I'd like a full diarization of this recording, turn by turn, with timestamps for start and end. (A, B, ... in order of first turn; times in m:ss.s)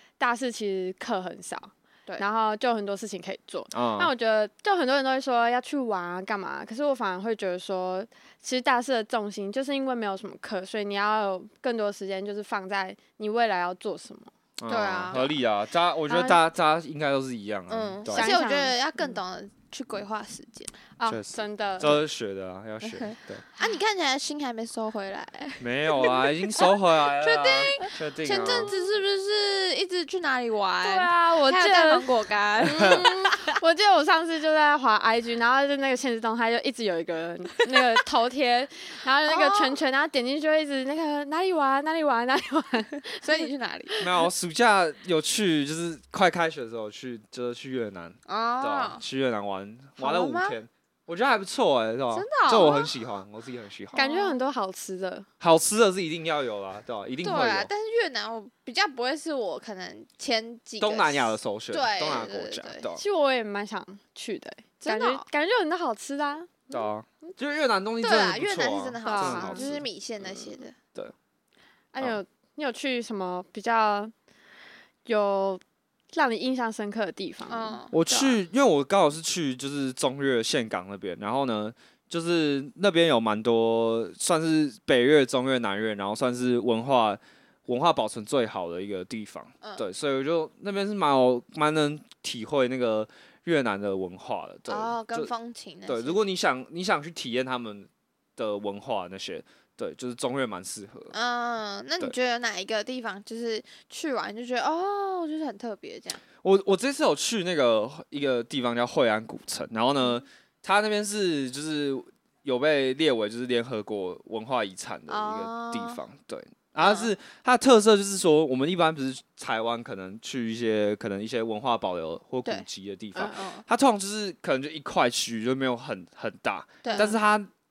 0:00.2-0:14.3 A
0:03.7-0:04.1 B
0:14.6-0:18.3 B
0:14.7-0:15.4 C
0:16.1-0:16.4 A
0:17.7-0:20.8 C
0:18.1-0:19.2 A
0:21.0-0:22.0 A
0:21.0-0:23.4 B
0:22.8-0:33.6 C
0:25.6-0:28.7 B
0:28.5-0:28.9 A
0:30.8-0:32.1 A
0:32.6-0:33.0 B
0:32.6-0:43.4 A
0:39.2-0:39.8 C
0:43.2-0:44.0 C
0:44.0-0:54.0 B
0:48.2-0:49.0 C
0:50.0-0:50.6 C
0:52.1-0:52.9 C
0:53.9-0:54.4 C
0:53.9-0:55.3 A
0:55.4-0:57.7 B
0:57.2-1:02.8 C
1:00.8-1:03.0 B
1:03.0-1:07.3 A
1:04.8-1:05.2 C
1:06.7-1:11.1 B
1:08.0-1:10.8 C
1:09.0-1:09.6 A
1:11.9-1:14.1 A
1:15.0-1:18.4 A
1:17.5-1:18.0 C
1:17.9-1:35.3 B
1:34.7-1:36.2 C
1:35.9-1:41.1 B
1:41.1-1:46.2 C
1:46.4-2:07.5 B
1:55.1-1:56.0 C
1:56.8-1:57.1 C
2:03.3-2:03.6 C
2:06.8-2:07.1 C
2:06.9-2:07.2 A